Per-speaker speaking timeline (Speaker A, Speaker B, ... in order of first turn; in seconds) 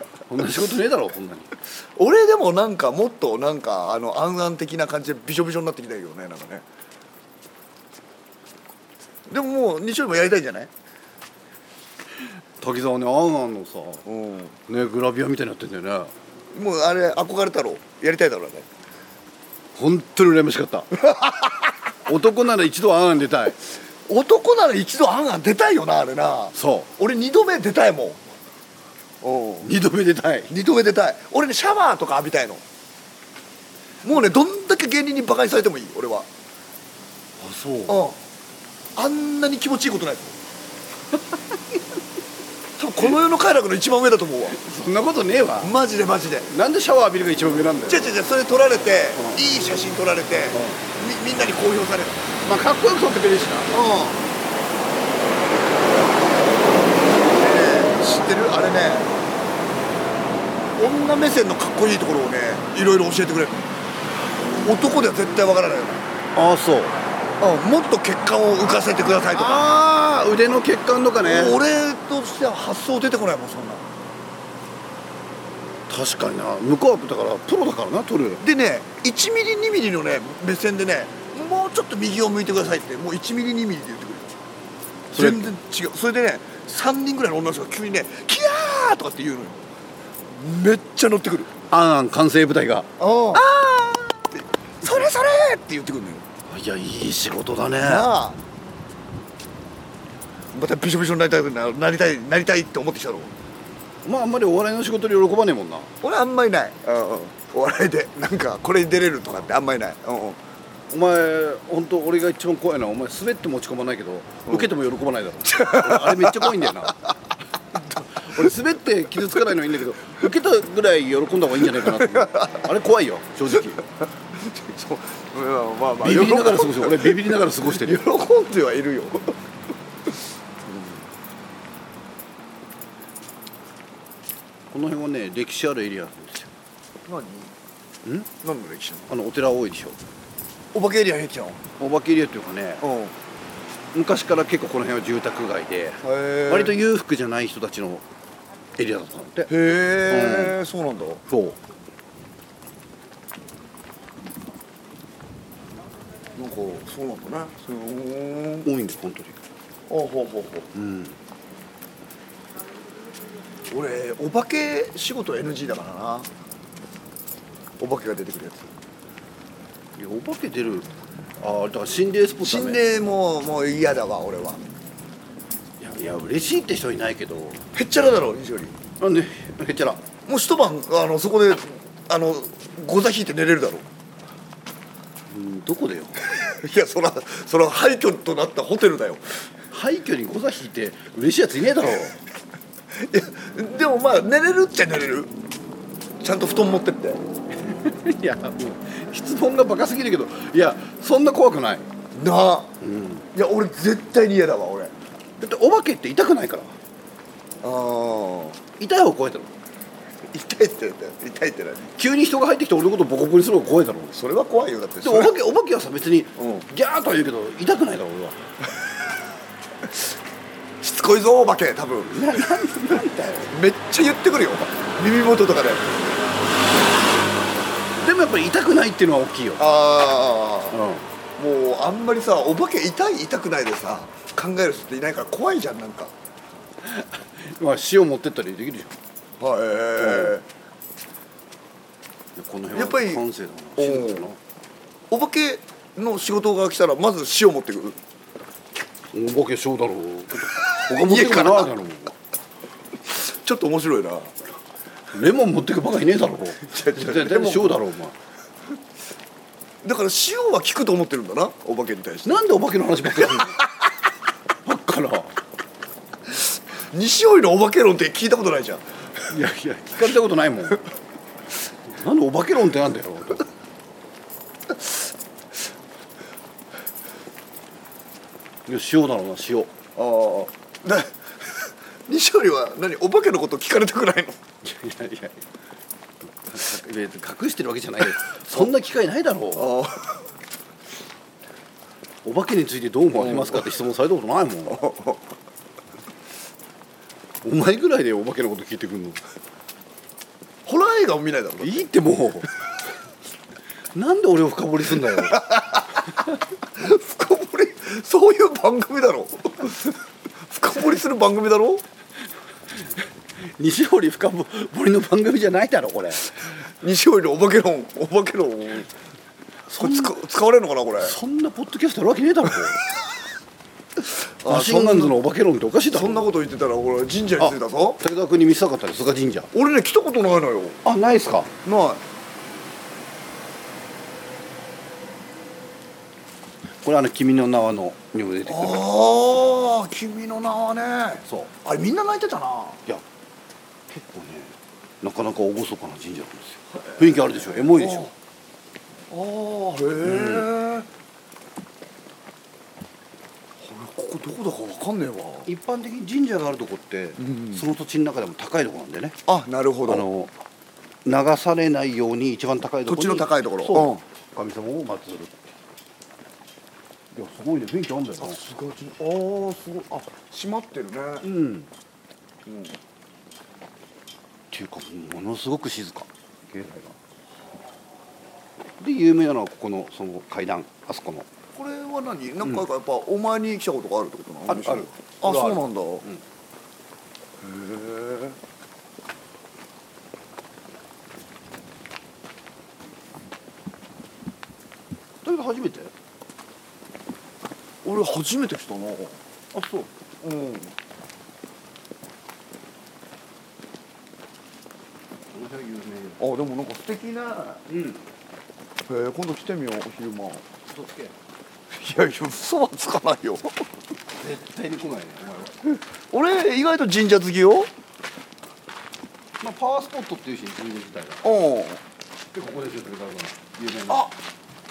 Speaker A: 0.3-1.5, 12.6-14.1, 14.7-16.1, 19.8-21.0, 22.1-23.6, 26.6-26.9, 29.6-30.5, 37.4-38.0, 44.5-45.7, 46.5-48.1, 50.5-50.8, 52.4-53.7, 66.3-67.0, 69.3-71.6, 75.9-78.4, 85.1-85.5, 91.7-94.1, 96.5-98.1, 104.0-105.9, 110.9-117.1, 118.0-123.8, 126.0-128.1, 134.7-136.5, 139.1-140.0, 141.8-142.8, 143.9-148.0, 148.8-149.5, 150.1-150.6, 151.3-151.6, 158.6-159.4, 160.7-161.2, 170.0-170.9, 171.4-172.8, 175.8-177.6, 179.0-180.1, 185.3-186.3, 189.7-192.2, 197.7-201.9, 202.8-203.3, 205.4-206.8, 208.8-209.5, 212.0-214.2, 215.0-218.4, 222.1-223.5, 228.0-229.7, 230.7-231.1, 236.8-238.9, 240.0-240.4, 242.4-244.4, 249.1-252.2, 255.1-258.1, 262.2-263.6, 264.6-265.4, 269.3-270.8, 271.9-273.5, 278.7-279.7, 284.6-285.4, 286.5-289.7, 292.2-294.8, 297.4-299.2, 301.6-302.5, 303.9-305.4, 313.5-316.3, 319.7-320.1, 321.0-322.8, 324.5-326.3, 327.4-329.5, 330.8-331.5, 336.8-338.9, 343.9-348.1, 350.0-350.5, 355.5-359.2, 359.9-360.3, 361.1-365.4, 367.1-368.4, 371.2-371.7, 374.5-377.0, 378.8-381.3, 384.5-386.2, 395.2-395.9, 399.5-399.9, 405.3-406.2, 407.7-408.1, 410.7-411.1, 414.2-415.6, 419.4-421.2, 422.3-424.1
Speaker B: 1.7-6.7, 9.3-10.7, 14.1-14.6, 16.5-18.7, 21.0-21.7, 24.1-28.3, 29.2-29.7, 30.5-32.6, 34.0-36.3, 37.9-38.2, 39.0-40.4, 42.8-44.6, 45.6-46.5, 47.9-52.3, 53.7-54.2, 57.1-59.2, 60.8-63.7, 64.6-66.1, 67.4-69.6, 71.2-73.9, 78.4-84.3, 85.1-89.6, 90.3-91.5, 93.0-93.5, 94.2-96.3, 97.8-98.4, 100.5-103.3, 106.0-110.4, 115.5-116.9, 117.7-118.5, 121.7-122.7, 123.5-129.4, 130.6-131.0, 137.1-137.5, 138.4-139.1, 140.7-141.7, 142.8-143.2, 146.0-146.8, 149.5-151.2, 156.4-158.7, 159.9-160.7, 163.7-166.3, 167.8-168.7, 172.4-174.6, 177.7-178.8, 180.3-183.9, 186.3-189.4, 192.9-195.3, 196.2-197.2, 202.1-202.8, 203.3-204.9, 207.6-208.6, 210.3-211.9, 214.1-215.3, 216.4-216.7, 220.8-222.7, 223.5-226.2, 229.6-230.8, 231.4-236.1, 239.4-240.5, 242.7-243.2, 243.8-244.3, 245.1-248.0, 250.8-251.7, 253.1-254.3, 256.6-257.8, 259.8-262.4, 263.2-263.6, 266.3-269.3, 280.0-284.4, 289.6-290.3, 293.1-293.7, 294.7-295.3, 300.6-301.9, 305.0-311.8, 316.8-318.9, 319.8-321.1, 324.4-325.2, 325.9-328.0, 329.5-330.8, 331.6-332.0, 338.5-342.8, 346.9-348.1, 349.1-350.9, 353.6-355.5, 357.2-357.6, 359.3-360.1, 362.9-364.0, 368.2-371.3, 372.5-372.8, 381.6-386.1, 387.4-388.4, 397.8-399.2, 400.2-400.8, 406.2-407.6, 408.9-410.5, 411.7-413.7, 416.1-417.7, 421.2-421.8